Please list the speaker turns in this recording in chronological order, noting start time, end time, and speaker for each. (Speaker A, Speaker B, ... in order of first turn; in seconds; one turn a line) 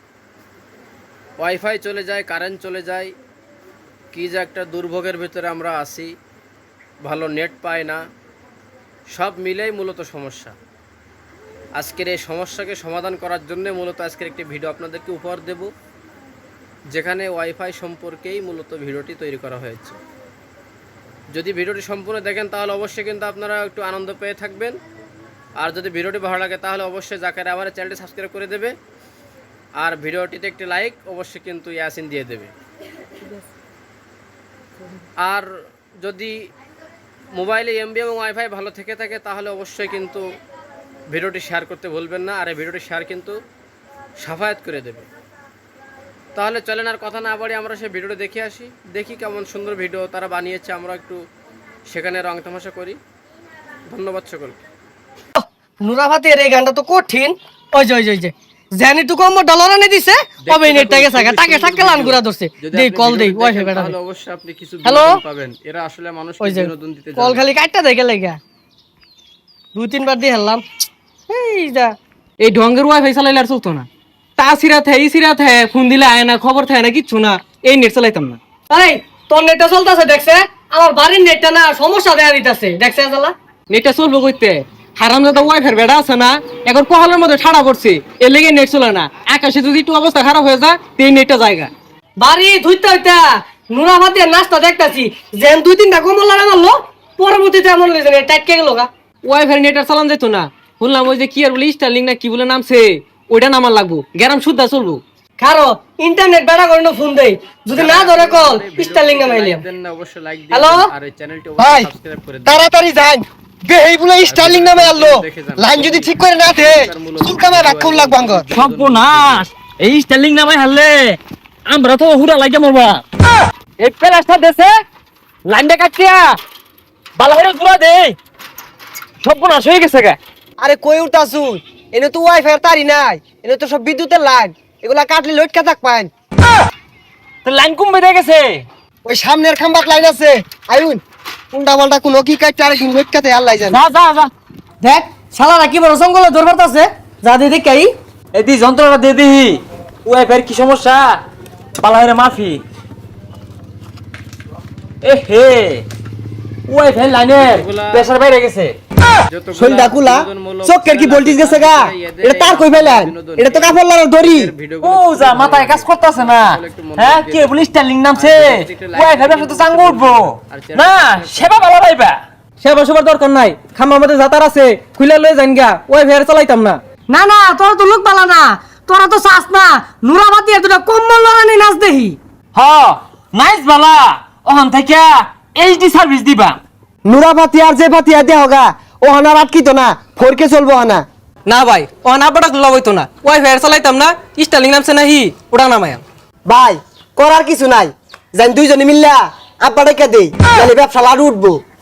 Speaker A: 1.4-3.1
Speaker A: 4.1-6.1
Speaker A: 7.0-8.0
Speaker A: 9.1-10.5
Speaker A: 11.8-15.7
Speaker A: 16.9-20.0
Speaker A: 21.3-24.8
Speaker A: 25.6-28.7
Speaker A: 29.8-32.5
Speaker A: 35.2-35.5
Speaker A: 36.0-36.3
Speaker A: 37.4-40.2
Speaker A: 41.1-43.4
Speaker A: 44.2-45.0
Speaker A: 46.4-51.2
Speaker A: 51.9-53.0
Speaker A: 53.9-54.6
Speaker B: 55.4-63.9
Speaker A: 60.4-67.4
Speaker B: 64.8-65.2
Speaker B: 66.4-68.4
Speaker B: 69.7-70.6
Speaker B: 71.3-72.0
Speaker C: 72.4-78.4
Speaker B: 78.7-83.3
Speaker C: 83.7-91.7
Speaker B: 92.2-98.9
Speaker C: 99.2-105.0
Speaker B: 105.4-109.6
Speaker A: 107.7-112.7
Speaker B: 110.5-110.9
Speaker D: 111.6-111.9
Speaker D: 112.5-118.4
Speaker A: 114.2-119.5
Speaker E: 118.5-123.0
Speaker E: 123.8-124.7
Speaker E: 125.5-126.4
Speaker E: 127.2-128.2
Speaker E: 129.2-130.2
Speaker D: 130.6-136.1
Speaker E: 137.4-138.7
Speaker D: 139.0-143.8
Speaker E: 143.7-144.3
Speaker B: 144.8-147.9
Speaker E: 148.3-151.2
Speaker E: 151.8-152.6
Speaker E: 155.0-155.8
Speaker E: 156.7-158.8
Speaker A: 157.3-158.1
Speaker A: 159.3-171.7
Speaker D: 159.5-164.5
Speaker E: 164.8-172.2
Speaker C: 172.6-176.8
Speaker B: 177.1-182.2
Speaker E: 182.5-186.6
Speaker D: 187.0-191.0
Speaker C: 191.4-196.0
Speaker D: 196.4-201.6